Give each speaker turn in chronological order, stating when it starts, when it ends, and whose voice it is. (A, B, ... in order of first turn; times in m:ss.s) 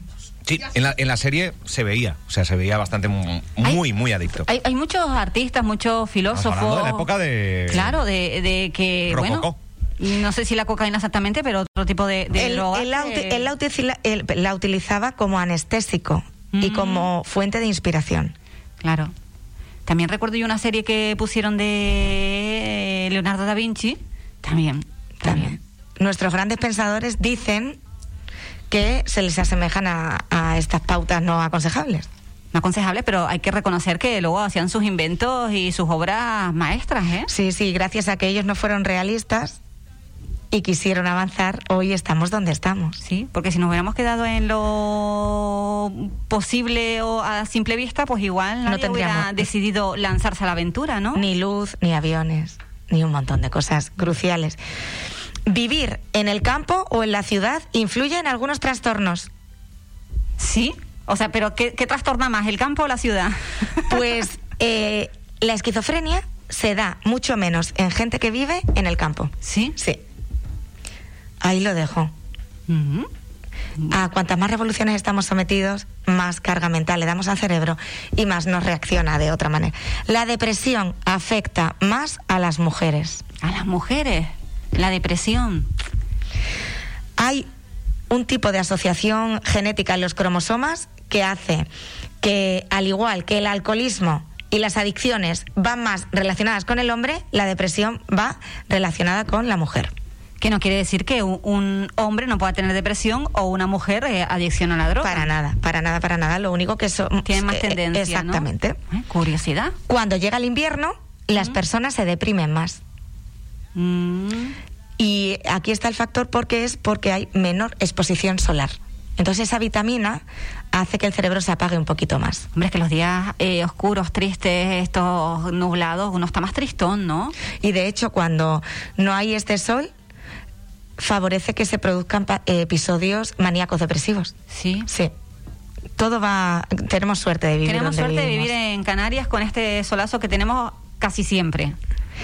0:00.5-0:04.5 A
0:04.3-0:07.1 B
0:06.3-0:08.0 A
0:07.7-0:13.5 B
0:09.1-0:09.6 A
0:12.4-0:18.3 C
0:16.5-0:17.1 B
0:18.8-0:19.1 B
0:19.9-0:25.6 B
0:25.2-0:27.8 C
0:28.7-0:32.1 C
0:32.5-0:37.3 B
0:37.3-0:39.6 C
0:40.5-0:43.0 C
0:43.0-0:51.3 B
0:48.7-0:49.4 C
0:51.2-0:54.6 C
0:55.5-0:59.3 C
1:00.4-1:04.0 B
1:03.9-1:10.0 C
1:09.4-1:09.8 B
1:11.4-1:12.1 C
1:12.7-1:13.1 B
1:13.9-1:23.2 C
1:23.4-1:25.7 B
1:27.2-1:27.5 C
1:28.1-1:31.7 C
1:32.2-1:39.9 C
1:40.4-1:45.3 B
1:45.0-1:48.8 C
1:47.2-1:49.8 B
1:49.9-1:52.8 C
1:53.8-1:54.6 B
1:55.0-2:02.5 C
2:02.5-2:07.4 B
2:07.6-2:09.9 C
2:11.0-2:14.3 C
2:14.5-2:14.9 B
2:16.0-2:18.5 C
2:17.6-2:21.8 B